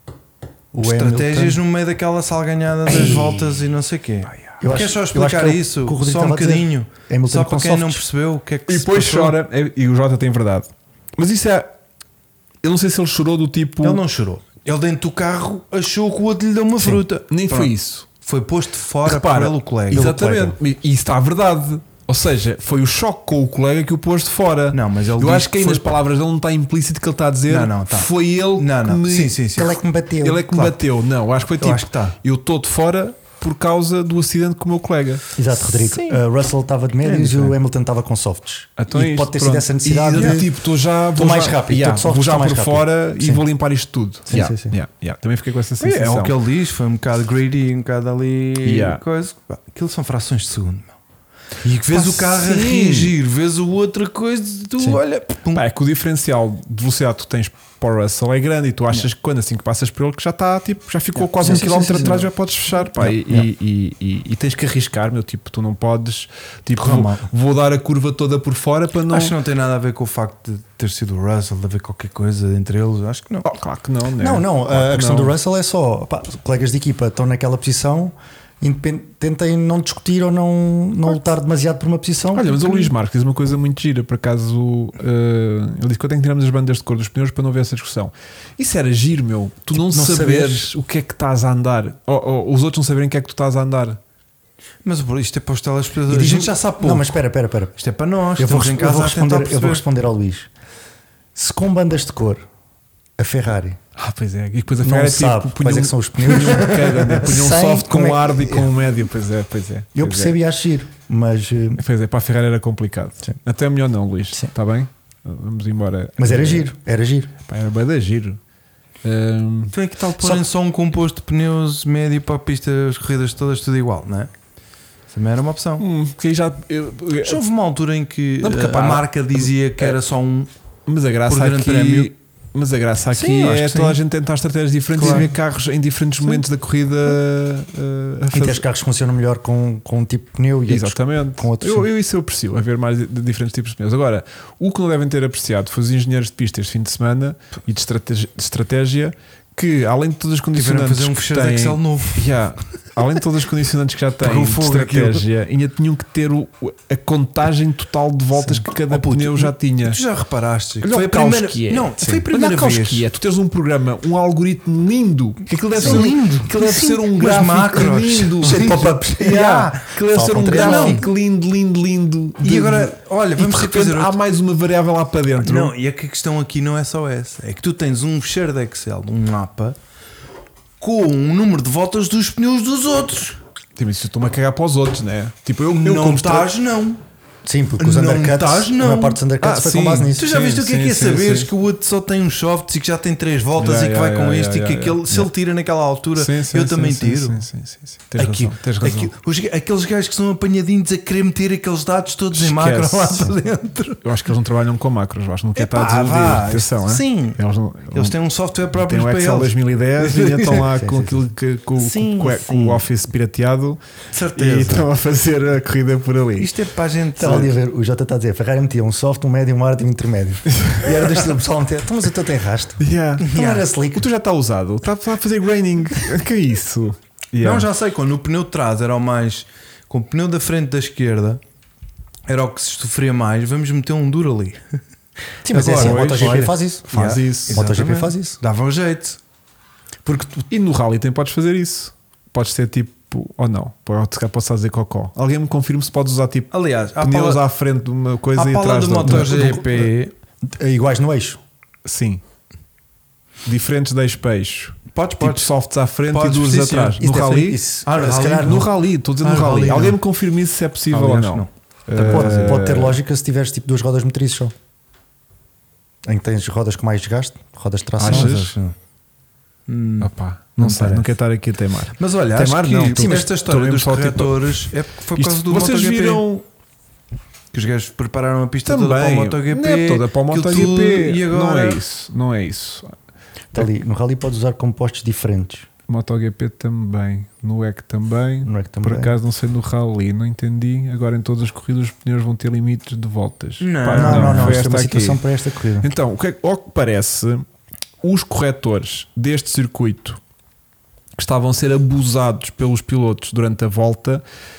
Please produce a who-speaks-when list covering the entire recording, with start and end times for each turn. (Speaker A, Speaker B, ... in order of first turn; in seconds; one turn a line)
Speaker A: 0.7-1.6
Speaker B: 0.8-9.4
Speaker A: 2.9-3.5
Speaker A: 4.6-8.0
Speaker C: 8.7-11.7
Speaker C: 12.6-14.0
Speaker B: 13.8-20.6
Speaker C: 17.3-18.1
Speaker C: 19.0-29.4
Speaker B: 24.7-25.9
Speaker B: 27.5-29.8
Speaker A: 29.5-30.8
Speaker C: 30.2-35.2
Speaker B: 31.6-32.2
Speaker A: 35.3-40.5
Speaker B: 35.8-36.2
Speaker B: 37.0-37.5
Speaker C: 38.8-46.3
Speaker B: 40.1-40.4
Speaker A: 41.1-43.4
Speaker A: 44.3-44.7
Speaker B: 45.8-50.9
Speaker C: 48.6-49.0
Speaker B: 51.6-55.6
Speaker C: 51.9-53.1
Speaker C: 55.5-69.3
Speaker B: 61.4-62.3
Speaker A: 61.4-62.2
Speaker A: 63.0-63.5
Speaker B: 66.8-67.2
Speaker B: 69.1-73.5
Speaker C: 73.4-75.3
Speaker A: 74.2-82.7
Speaker C: 82.3-94.0
Speaker A: 89.7-90.7
Speaker B: 94.8-97.1
Speaker A: 96.1-97.8
Speaker B: 97.8-99.8
Speaker A: 98.4-100.5
Speaker A: 101.3-102.4
Speaker A: 103.2-103.8
Speaker C: 104.0-110.3
Speaker A: 104.8-108.7
Speaker A: 109.9-111.8
Speaker C: 111.8-116.7
Speaker A: 116.2-117.3
Speaker C: 117.4-118.4
Speaker C: 119.0-119.7
Speaker B: 119.7-124.3
Speaker B: 125.1-125.8
Speaker C: 125.8-127.4
Speaker B: 127.2-130.5
Speaker C: 128.4-130.0
Speaker C: 130.9-138.6
Speaker B: 131.3-132.1
Speaker B: 133.1-134.0
Speaker B: 134.9-135.3
Speaker A: 138.3-141.9
Speaker C: 140.7-160.0
Speaker B: 150.5-152.3
Speaker B: 154.2-155.2
Speaker B: 158.8-163.0
Speaker C: 160.8-175.7
Speaker B: 165.8-171.0
Speaker A: 168.4-169.4
Speaker A: 170.1-171.0
Speaker B: 172.4-174.2
Speaker B: 175.4-179.8
Speaker B: 180.8-183.4
Speaker C: 183.8-186.5
Speaker B: 185.7-187.0
Speaker A: 187.4-190.2
Speaker B: 187.8-189.2
Speaker C: 189.4-191.5
Speaker B: 190.2-197.4
Speaker C: 193.6-195.3
Speaker C: 196.2-199.1
Speaker B: 198.1-204.0
Speaker C: 202.3-203.3
Speaker C: 204.0-208.1
Speaker B: 205.5-207.4
Speaker B: 207.9-210.7
Speaker C: 208.7-213.8
Speaker A: 210.7-211.1
Speaker B: 211.8-212.8
Speaker B: 214.1-214.9
Speaker C: 214.3-216.5
Speaker B: 216.4-217.6
Speaker A: 217.2-224.1
Speaker C: 220.6-221.4
Speaker C: 222.8-223.3
Speaker B: 223.2-223.7
Speaker C: 223.9-227.7
Speaker B: 227.4-231.4
Speaker B: 232.3-234.6
Speaker A: 235.4-236.8
Speaker B: 235.5-239.2
Speaker C: 235.7-237.6
Speaker A: 237.5-238.4
Speaker A: 240.0-240.4
Speaker C: 240.5-249.4
Speaker B: 246.5-247.4
Speaker B: 248.3-250.1
Speaker A: 249.0-249.9
Speaker A: 250.4-251.4
Speaker C: 251.8-252.2
Speaker C: 253.4-257.6
Speaker B: 254.9-255.5
Speaker B: 256.1-257.1
Speaker A: 257.0-258.6
Speaker B: 257.8-260.0
Speaker C: 258.4-263.0
Speaker B: 260.9-262.6
Speaker A: 262.0-264.5
Speaker A: 266.0-268.3
Speaker C: 268.0-268.5
Speaker B: 268.1-268.7
Speaker B: 269.7-271.1
Speaker C: 270.0-274.6
Speaker B: 272.0-276.2
Speaker A: 272.9-273.2
Speaker C: 275.1-276.4
Speaker B: 277.5-281.8
Speaker C: 278.6-282.9
Speaker A: 283.5-285.7
Speaker C: 285.9-295.2
Speaker A: 288.4-289.1
Speaker B: 293.6-294.6
Speaker A: 293.9-295.9
Speaker C: 295.8-297.4
Speaker C: 298.0-300.2
Speaker C: 301.2-304.2